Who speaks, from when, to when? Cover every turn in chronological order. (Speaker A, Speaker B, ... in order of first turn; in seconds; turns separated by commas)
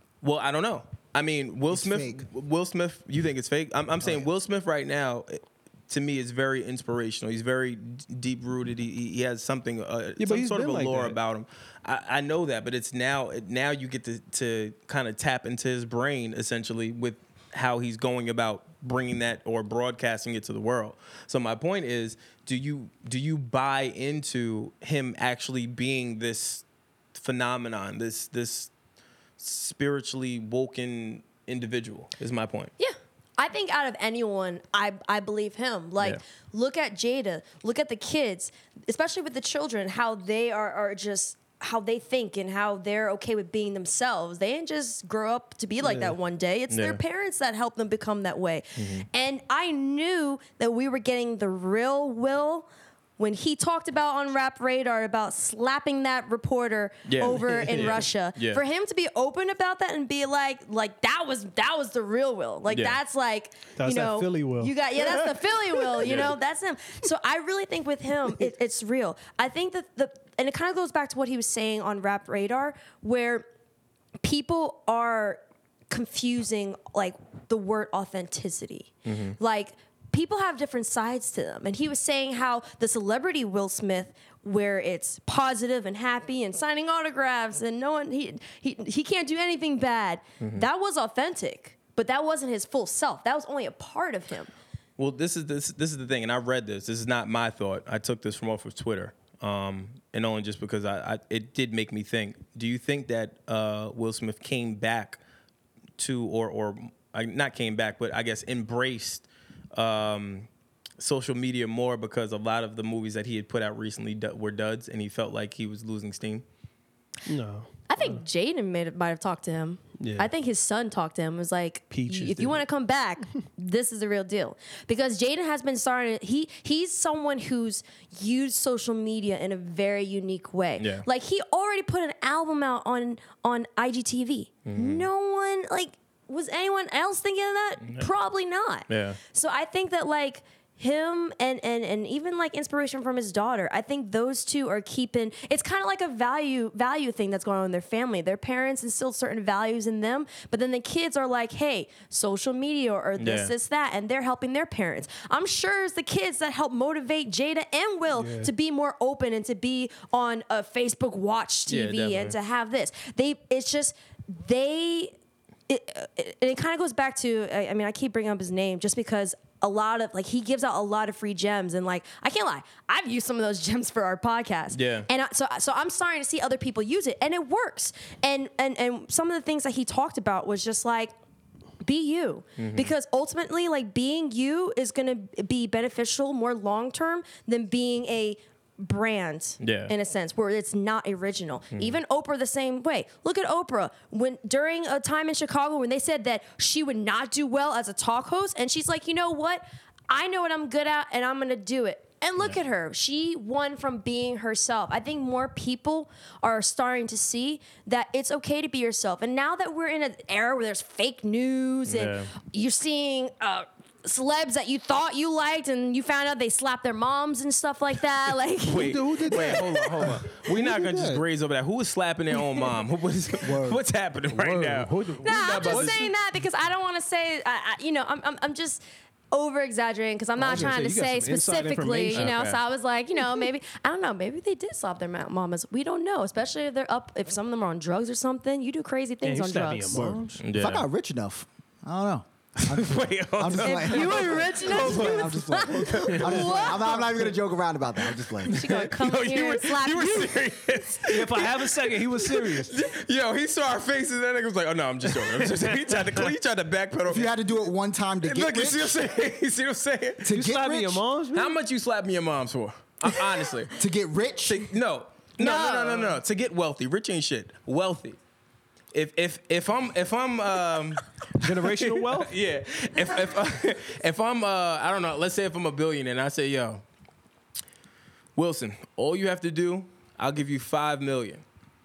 Speaker A: 0.2-26.6, Speaker B: 1.7-2.3, Speaker C: 10.2-11.2, Speaker A: 27.1-28.7, Speaker A: 29.4-32.7, Speaker D: 32.8-73.5, Speaker C: 45.8-46.1, Speaker A: 46.7-47.0, Speaker A: 48.8-49.1, Speaker A: 57.1-58.6, Speaker C: 57.3-58.0, Speaker A: 62.7-63.0, Speaker C: 63.8-66.3, Speaker A: 66.0-66.3, Speaker D: 74.2-94.5, Speaker A: 79.1-79.4, Speaker A: 90.4-90.7, Speaker A: 95.0-105.2, Speaker A: 106.0-110.5, Speaker A: 111.0-116.4, Speaker C: 117.3-118.2, Speaker D: 117.9-165.1, Speaker C: 120.0-120.3, Speaker C: 121.9-122.6, Speaker A: 130.8-131.1, Speaker A: 134.7-135.1, Speaker A: 137.8-138.1, Speaker A: 138.9-139.2, Speaker A: 153.2-153.5, Speaker C: 158.2-158.5, Speaker A: 161.7-162.4, Speaker D: 165.7-181.1, Speaker A: 174.7-175.1, Speaker D: 181.8-219.7, Speaker A: 182.6-182.9, Speaker A: 189.6-189.9, Speaker A: 211.9-212.3, Speaker A: 218.7-226.1, Speaker C: 218.8-221.2, Speaker B: 223.4-223.8, Speaker C: 224.3-226.1, Speaker D: 225.2-240.2, Speaker C: 230.4-232.3, Speaker A: 232.2-232.6, Speaker C: 239.2-240.4, Speaker B: 239.9-248.6, Speaker A: 240.4-240.9, Speaker A: 242.6-245.2, Speaker D: 243.6-247.1, Speaker A: 245.7-246.8, Speaker C: 246.1-246.5, Speaker A: 248.5-257.3, Speaker D: 248.5-250.6, Speaker C: 251.1-252.7, Speaker C: 255.3-256.2, Speaker B: 257.1-259.1, Speaker A: 258.2-260.3, Speaker B: 260.2-261.0, Speaker C: 260.3-261.6, Speaker A: 261.3-263.8, Speaker B: 263.8-264.7, Speaker A: 264.5-268.2, Speaker D: 265.4-266.2, Speaker A: 268.9-276.8, Speaker C: 271.4-272.3, Speaker A: 278.4-281.4